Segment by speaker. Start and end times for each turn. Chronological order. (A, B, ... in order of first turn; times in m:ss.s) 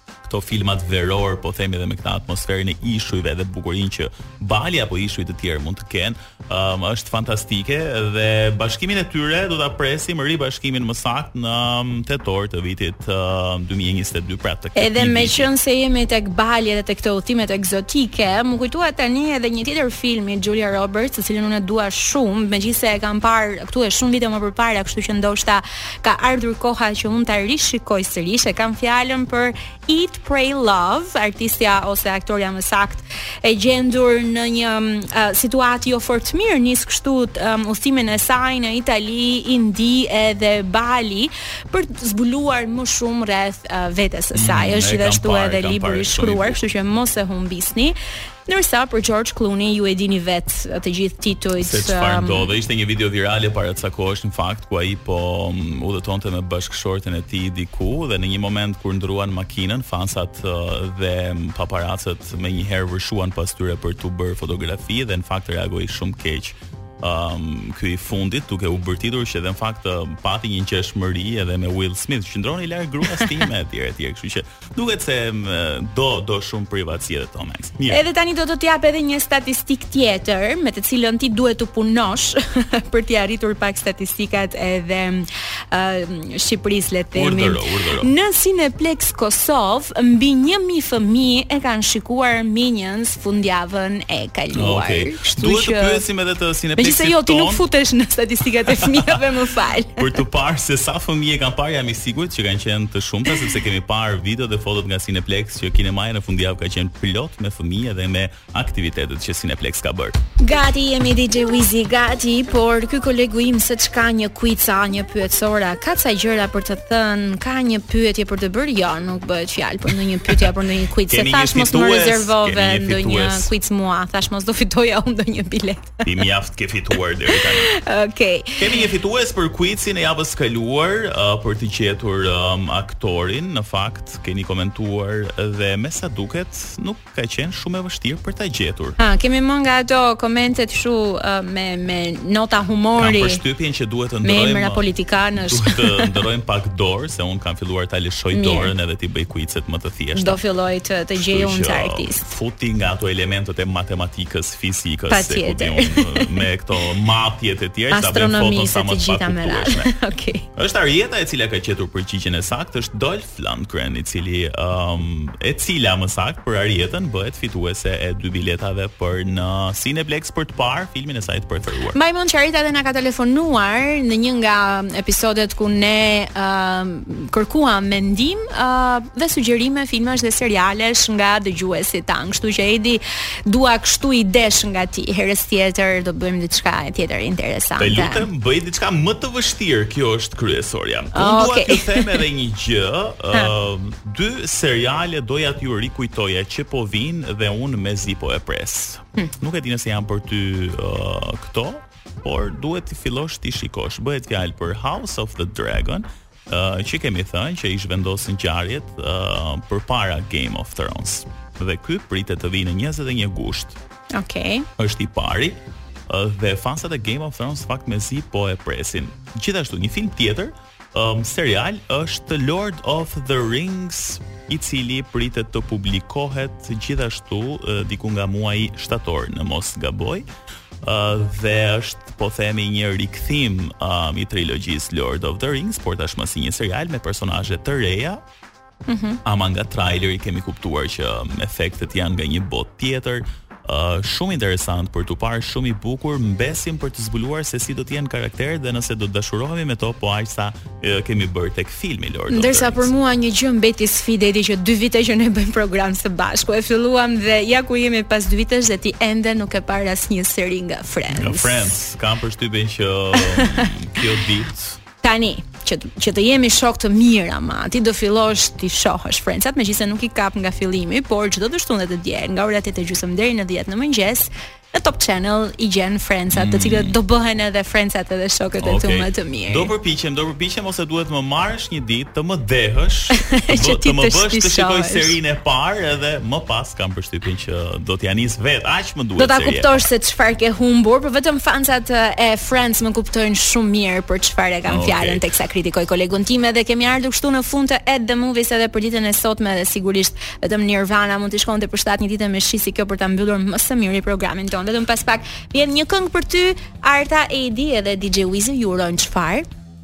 0:00.2-0:15.5 A
0:14.8-0:47.9 B
0:44.3-0:46.6 A
0:48.5-0:52.5 B
0:51.6-1:18.0 A
1:17.9-1:36.0 B
1:27.1-1:28.1 A
1:34.5-1:37.6 A
1:36.8-1:40.1 B
1:38.7-1:39.2 A
1:40.0-1:50.1 A
1:50.4-2:06.0 B
2:01.1-2:03.5 A
2:06.0-2:07.7 A
2:07.4-2:08.8 B
2:08.6-2:19.0 A
2:19.0-2:23.4 B
2:23.0-2:24.8 A
2:24.2-2:26.1 B
2:25.5-2:30.4 A
2:28.3-2:28.7 B
2:30.1-2:32.3 B
2:31.2-2:39.9 A
2:35.1-2:36.4 B
2:37.9-2:40.4 B
2:40.5-2:52.0 A
2:51.9-3:08.3 B
3:07.8-3:33.8 A
3:11.1-3:12.2 B
3:34.1-3:34.7 B
3:34.8-3:50.2 A
3:50.8-3:58.2 A
3:58.9-3:59.2 B
3:59.2-4:12.9 A
4:12.3-4:21.7 B
4:21.1-4:24.8 A
4:23.2-4:23.7 B
4:25.0-4:39.7 B
4:36.3-4:37.0 A
4:38.6-4:49.8 A
4:43.2-4:45.2 B
4:49.2-5:09.4 B
4:54.6-4:55.2 A